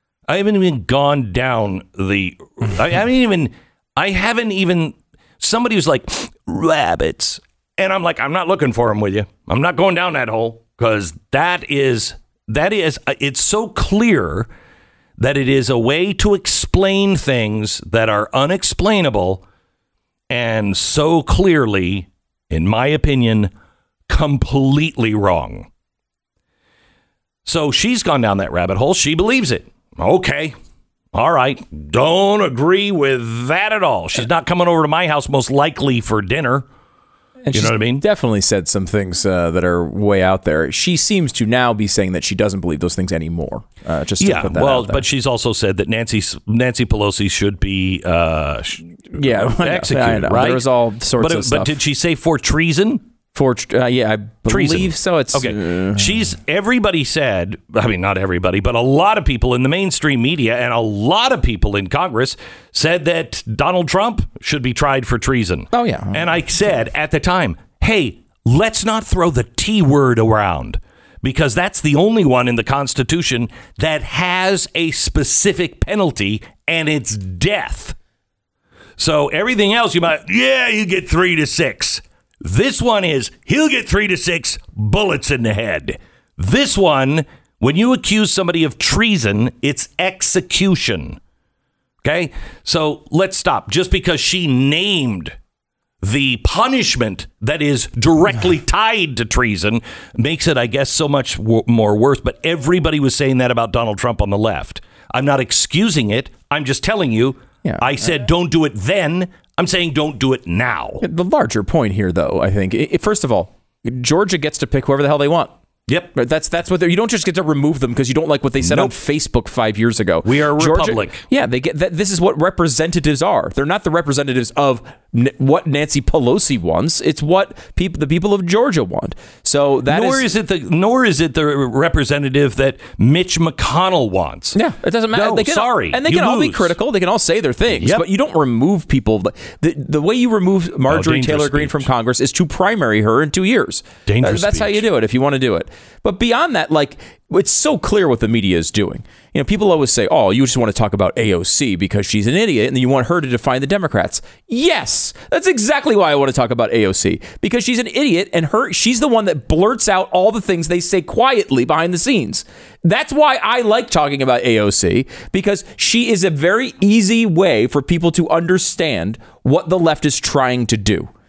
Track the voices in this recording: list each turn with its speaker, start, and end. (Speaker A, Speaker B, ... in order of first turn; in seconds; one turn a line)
Speaker A: 0.3-14.5
Speaker A: 15.2-19.4
Speaker A: 20.3-23.5
Speaker A: 24.1-25.7
Speaker A: 27.4-30.6
Speaker A: 31.1-36.7
Speaker B: 37.4-45.0
Speaker A: 37.5-38.0
Speaker A: 44.2-50.7
Speaker B: 49.1-51.8
Speaker A: 51.2-53.0
Speaker B: 53.3-56.2
Speaker A: 54.5-78.0
Speaker B: 65.7-66.2
Speaker A: 79.0-91.2
Speaker A: 92.0-95.3
Speaker A: 96.0-111.0
Speaker B: 107.6-107.9
Speaker B: 111.0-115.5
Speaker B: 116.1-130.3
Speaker A: 118.6-118.9
Speaker A: 120.2-121.2
Speaker A: 129.9-134.6
Speaker B: 134.5-171.1
Speaker A: 135.1-136.8
Speaker A: 137.7-138.0
Speaker A: 140.9-141.9
Speaker A: 144.1-144.8